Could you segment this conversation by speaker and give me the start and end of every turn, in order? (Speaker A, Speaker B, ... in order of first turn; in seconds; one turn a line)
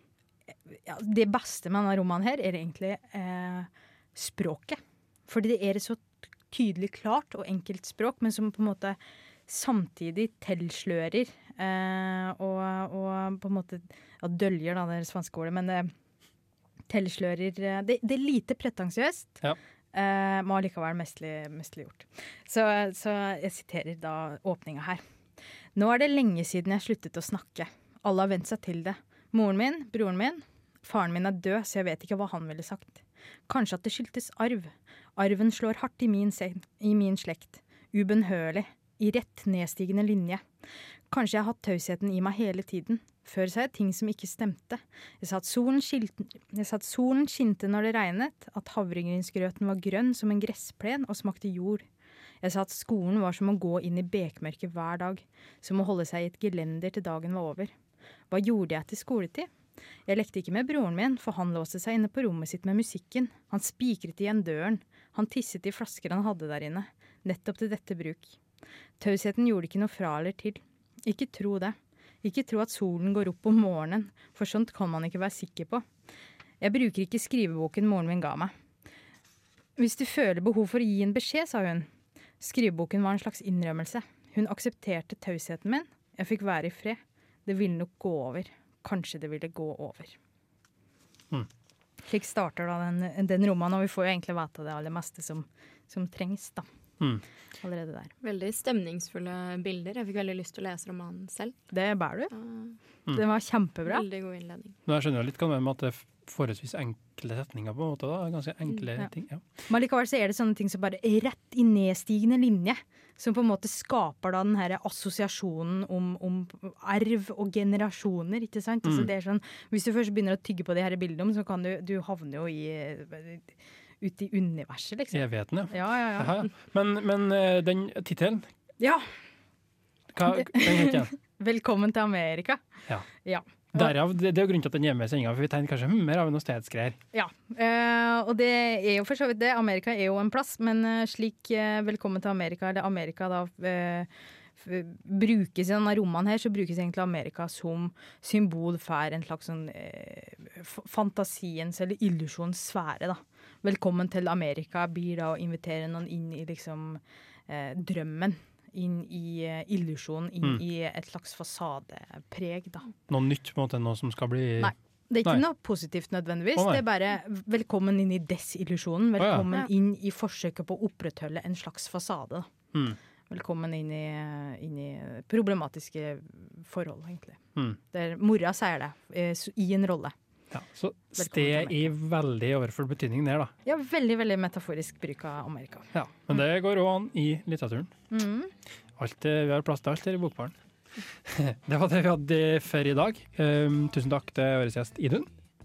Speaker A: 0.7-15.9
Speaker A: 16.9-19.4
Speaker A: 19.9-25.0
Speaker A: 25.8-40.4
Speaker A: 41.1-51.8
Speaker A: 52.4-57.7
Speaker A: 58.3-59.5
Speaker A: 60.1-68.4
Speaker A: 69.0-75.8
Speaker A: 76.6-78.5
Speaker A: 79.8-81.9
Speaker A: 82.4-90.2
Speaker A: 92.0-96.7
Speaker A: 97.6-98.1
Speaker B: 98.2-101.6
Speaker A: 101.7-102.3
Speaker B: 102.3-102.8
Speaker A: 103.1-104.0
Speaker B: 103.9-104.8
Speaker C: 104.9-109.4
Speaker A: 109.7-126.3
Speaker C: 118.8-119.1
Speaker C: 125.1-128.5
Speaker A: 128.8-129.1
Speaker C: 130.1-131.1
Speaker A: 130.3-132.6
Speaker A: 133.2-133.9
Speaker C: 133.7-137.0
Speaker A: 137.1-162.9
Speaker C: 163.1-165.4
Speaker A: 164.6-172.5
Speaker C: 166.6-166.8
Speaker C: 169.2-169.5
Speaker C: 172.7-173.0
Speaker A: 173.3-177.4
Speaker A: 177.9-180.1
Speaker C: 180.5-183.5
Speaker A: 181.2-181.9
Speaker A: 183.6-185.9
Speaker C: 185.9-187.9
Speaker A: 188.1-188.5
Speaker C: 189.0-190.6
Speaker C: 191.2-195.3